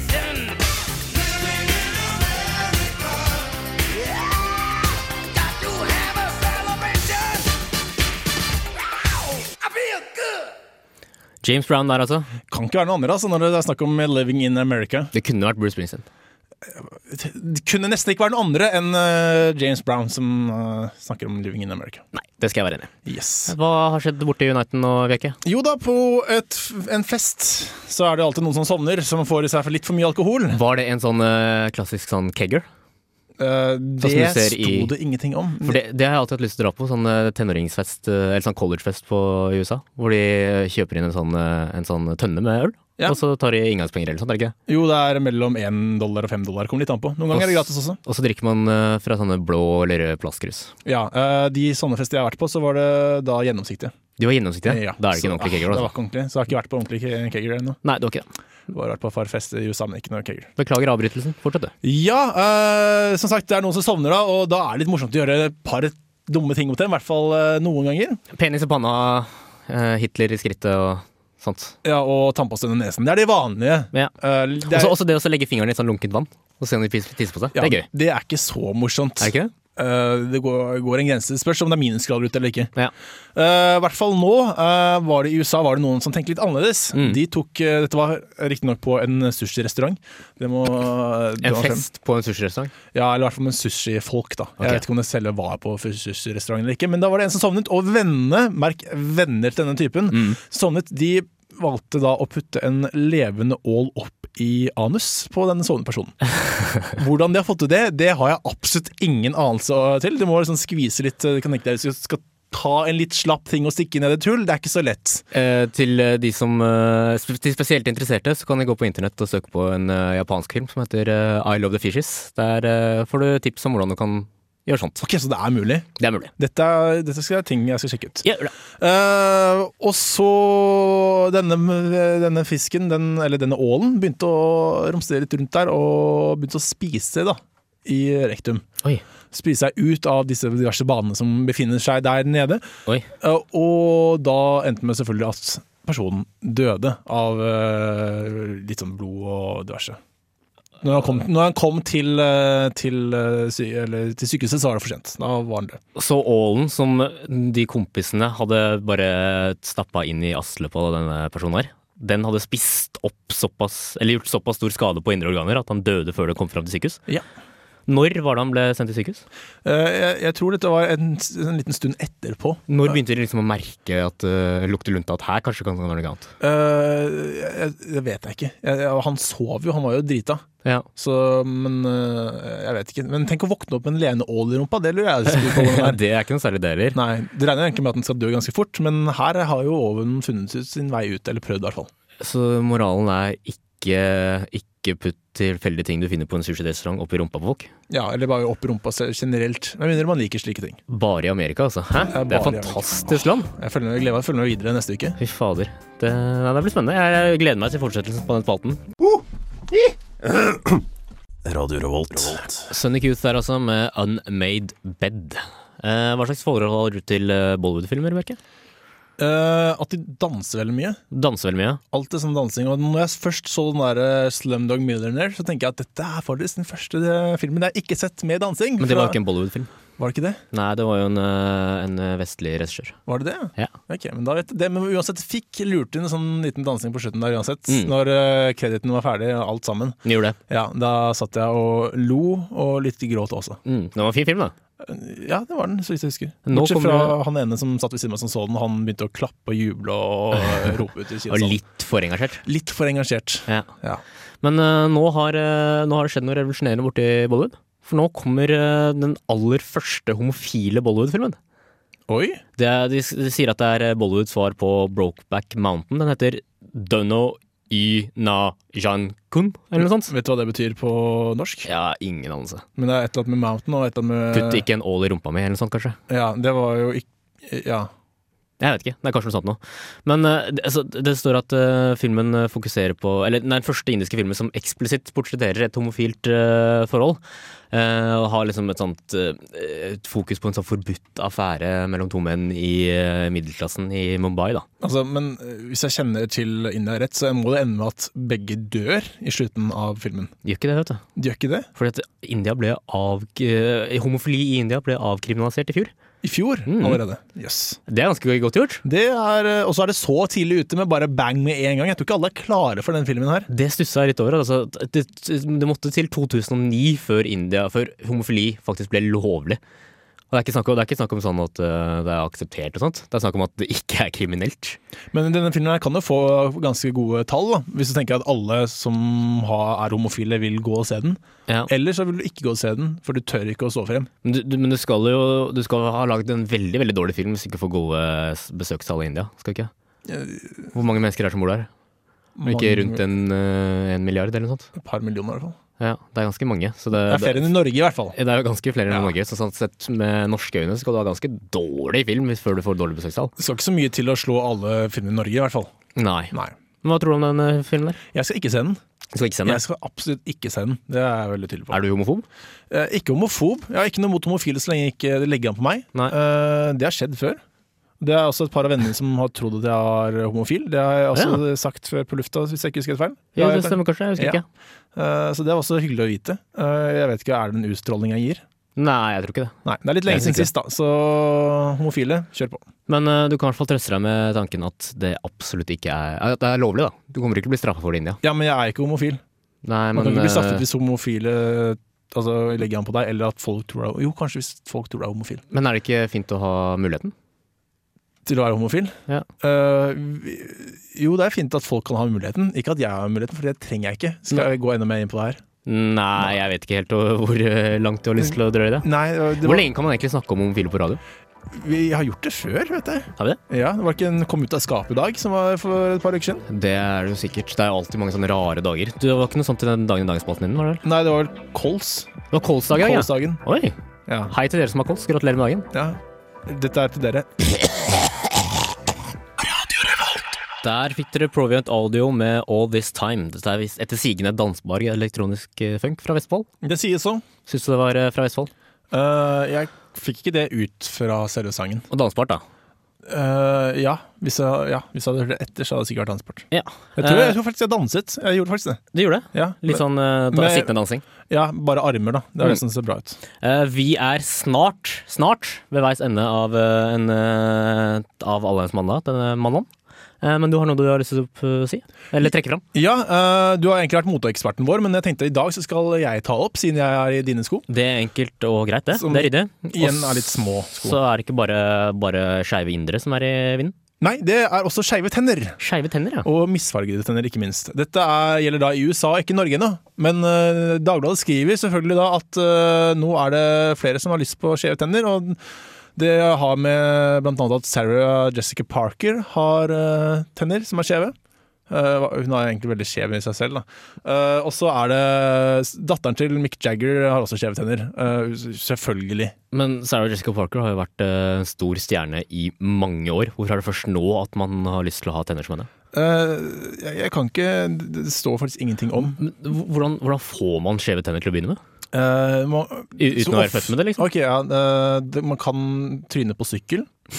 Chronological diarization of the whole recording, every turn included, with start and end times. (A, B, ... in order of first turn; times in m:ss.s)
0:11.4-0:12.3 A
0:12.5-0:15.1 B
0:15.1-0:16.0 A
0:16.7-0:22.0 B
0:22.1-0:22.9 A
0:23.0-0:23.5 B
0:23.4-0:25.4 A
0:25.4-0:30.6 B
0:30.5-0:32.6 A
0:33.4-0:35.8 B
0:34.0-0:34.9 A
0:35.6-0:44.5 A
0:44.7-0:48.0 B
0:47.3-0:50.7 A
0:50.8-0:53.9 B
0:54.2-0:55.9 A
0:54.6-0:57.8 B
0:57.8-0:58.3 A
0:58.7-1:00.5 B
1:00.6-1:01.7 A
1:01.8-1:08.2 B
1:08.3-1:11.8 A
1:11.8-1:15.0 B
1:14.6-1:17.8 A
1:17.5-1:22.7 B
1:19.2-1:19.5 A
1:23.3-1:31.8 B
1:31.4-1:32.7 A
1:32.9-1:46.2 B
1:40.1-1:40.4 A
1:46.9-1:55.2 B
1:55.3-2:05.0 A
2:05.0-2:08.2 B
2:06.0-2:06.3 A
2:08.2-2:08.5 A
2:08.8-2:18.6 B
2:19.3-2:22.6 B
2:23.2-2:30.0 B
2:30.8-2:35.8 B
2:35.9-2:47.0 A
2:47.9-2:49.2 A
2:49.6-2:52.9 B
2:52.7-2:56.3 A
2:56.4-3:00.4 B
3:01.0-3:06.0 B
3:05.3-3:07.0 A
3:06.9-3:11.9 B
3:12.2-3:17.7 A
3:17.9-3:20.8 B
3:20.9-3:23.5 A
3:22.1-3:25.2 B
3:25.2-3:28.8 A
3:29.7-3:30.7 B
3:31.4-3:32.7 B
3:32.6-3:38.4 A
3:39.2-3:41.0 B
3:41.1-3:41.8 A
3:41.9-3:49.2 B
3:48.8-3:49.7 A
3:50.0-3:50.4 B
3:50.5-3:53.0 A
3:53.1-4:03.6 B
3:57.7-3:57.9 A
4:00.0-4:00.4 A
4:03.6-4:04.5 A
4:04.8-4:11.6 B
4:06.5-4:07.2 A
4:11.3-4:12.4 A
4:12.4-4:14.0 B
4:14.4-4:21.4 A
4:22.1-4:22.4 B
4:22.6-4:30.1 A
4:29.8-4:31.7 B
4:31.6-4:32.6 A
4:32.8-4:34.6 B
4:34.3-4:36.0 A
4:36.1-4:37.9 B
4:38.6-4:47.2 A
4:47.7-4:54.6 A
4:54.8-5:00.3 B
5:00.4-5:01.0 A
5:01.2-5:01.7 B
5:01.8-5:05.9 A
5:06.2-5:07.8 B
5:06.6-5:07.0 A
5:07.9-5:08.8 A
5:08.8-5:13.5 B
5:13.5-5:19.6 A
5:20.3-5:24.8 A
5:25.1-5:34.1 B
5:34.2-5:39.7 A
5:40.1-5:40.7 B
5:40.7-5:41.7 A
5:42.4-5:43.0 B
5:42.4-5:44.7 A
5:44.7-5:45.6 B
5:45.8-5:47.5 A
5:47.0-5:48.1 B
5:48.1-5:53.3 A
5:53.4-5:55.7 B
5:55.9-5:58.0 A
5:58.1-5:58.8 B
5:59.1-5:59.6 A
5:59.4-6:01.8 B
6:01.7-6:02.2 A
6:02.7-6:07.4 B
6:08.0-6:14.4 B
6:11.1-6:11.4 A
6:13.4-6:14.4 A
6:14.9-6:18.4 B
6:18.8-6:19.5 A
6:19.6-6:22.6 B
6:20.0-6:20.5 A
6:22.9-6:28.2 A
6:28.2-6:29.2 B
6:29.6-6:30.6 A
6:29.9-6:35.4 B
6:35.5-6:37.1 A
6:38.2-6:45.4 B
6:45.6-6:48.9 A
6:48.2-6:49.7 B
6:49.4-6:51.0 A
6:51.5-6:56.4 B
6:56.5-7:00.8 A
7:00.8-7:02.1 B
7:02.3-7:03.8 A
7:02.7-7:03.4 B
7:04.1-7:04.3 B
7:04.3-7:05.7 A
7:05.7-7:07.5 B
7:10.6-7:16.5 A
7:16.6-7:17.2 B
7:17.5-7:18.5 A
7:18.9-7:21.9 B
7:21.9-7:22.4 A
7:23.0-7:30.7 B
7:26.5-7:27.4 A
7:28.9-7:31.0 A
7:31.3-7:33.2 B
7:33.4-7:39.7 A
7:40.2-7:42.6 A
7:42.7-7:47.6 B
7:47.7-7:53.7 A
7:48.9-7:51.0 B
7:54.0-7:55.6 B
7:55.6-7:56.3 A
7:56.2-8:05.4 B
8:06.0-8:11.1 B
8:11.7-8:19.3 B
8:19.5-8:25.7 A
8:25.9-8:29.2 B
8:29.1-8:31.6 A
8:31.9-8:36.9 B
8:33.0-8:34.1 A